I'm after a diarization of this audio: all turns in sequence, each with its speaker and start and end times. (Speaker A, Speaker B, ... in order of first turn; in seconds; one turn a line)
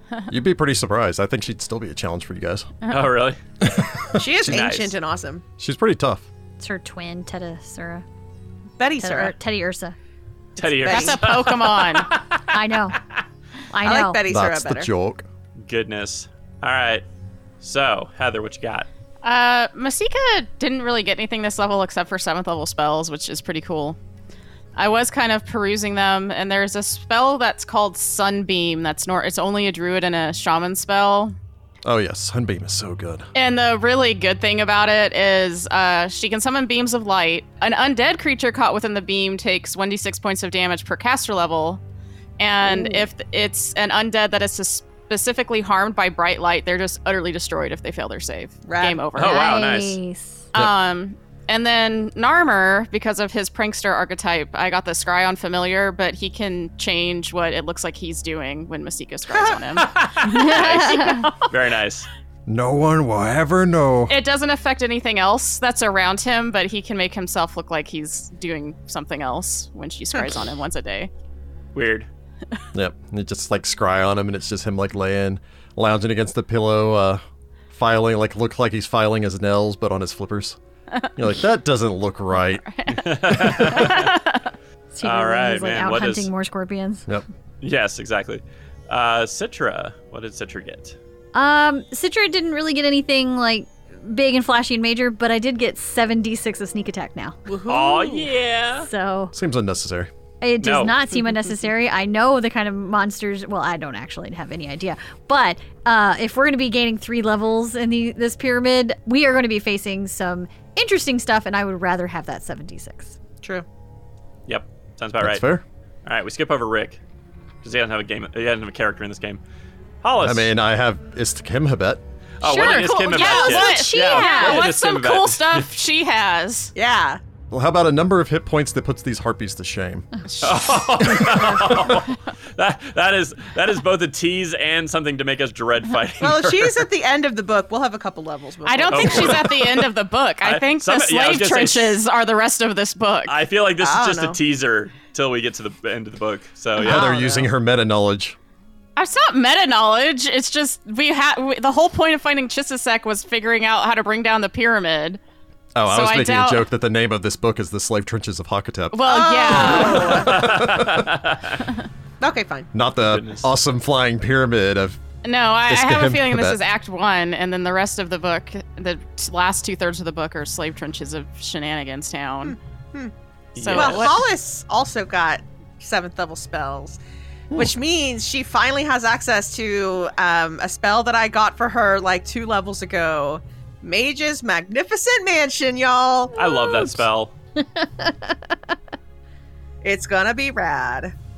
Speaker A: 0.3-2.7
Speaker B: 2.8-3.1
Speaker C: 2.9-3.4
Speaker A: 3.6-4.6
Speaker D: 4.2-5.4
Speaker C: 4.5-4.9
Speaker A: 5.6-6.3
Speaker E: 6.6-8.0
Speaker D: 8.8-9.3
Speaker E: 9.0-10.0
Speaker C: 10.6-12.6
Speaker D: 10.6-11.3
Speaker B: 10.8-12.1
Speaker E: 12.5-13.0
Speaker E: 13.7-14.2
Speaker D: 13.8-14.9
Speaker A: 14.3-15.2
Speaker C: 15.6-17.0
Speaker C: 17.6-18.9
Speaker B: 19.2-24.0
Speaker B: 24.8-31.4
Speaker A: 31.9-33.3
Speaker B: 33.4-41.8
Speaker B: 42.4-49.6
Speaker E: 42.7-43.0
Speaker D: 48.6-49.1
Speaker C: 49.1-50.0
Speaker E: 49.2-50.5
Speaker B: 50.5-61.5
Speaker D: 59.3-59.6
Speaker C: 59.8-62.1
Speaker E: 60.2-61.3
Speaker A: 62.5-64.1
Speaker B: 64.1-71.1
Speaker C: 71.8-72.1
Speaker A: 72.7-80.6
Speaker A: 81.2-82.6
Speaker B: 82.6-84.5
Speaker C: 83.0-84.2
Speaker E: 84.9-87.1
Speaker C: 85.0-86.3
Speaker C: 87.6-91.0
Speaker E: 91.3-97.4
Speaker D: 97.5-98.3
Speaker C: 97.7-98.9
Speaker E: 98.8-99.3
Speaker A: 99.3-100.1
Speaker E: 100.4-113.2
Speaker C: 100.6-101.0
Speaker C: 114.5-115.4
Speaker A: 115.2-115.6
Speaker C: 116.1-117.0
Speaker C: 117.6-119.4
Speaker C: 120.0-120.5
Speaker A: 120.2-122.0
Speaker C: 122.4-125.7
Speaker E: 122.4-124.6
Speaker B: 122.5-126.7
Speaker D: 126.8-127.2
Speaker A: 127.5-130.1
Speaker C: 130.4-136.8
Speaker A: 131.2-131.8
Speaker D: 136.2-139.7
Speaker B: 138.7-143.4
Speaker C: 138.9-139.9
Speaker C: 140.4-142.0
Speaker C: 143.3-147.2
Speaker D: 143.8-144.4
Speaker D: 146.8-147.5
Speaker A: 146.8-148.4
Speaker B: 149.0-155.2
Speaker A: 155.8-161.1
Speaker B: 155.9-156.7
Speaker B: 158.9-160.4
Speaker D: 159.1-160.6
Speaker C: 159.7-161.7
Speaker D: 162.2-162.7
Speaker A: 162.7-165.0
Speaker C: 163.1-163.5
Speaker B: 165.2-172.6
Speaker A: 165.7-166.6
Speaker D: 172.4-173.1
Speaker C: 173.6-174.2
Speaker B: 173.6-174.2
Speaker D: 173.7-177.0
Speaker D: 177.5-186.3
Speaker C: 186.3-187.3
Speaker E: 186.4-187.0
Speaker E: 187.6-188.3
Speaker D: 189.8-191.1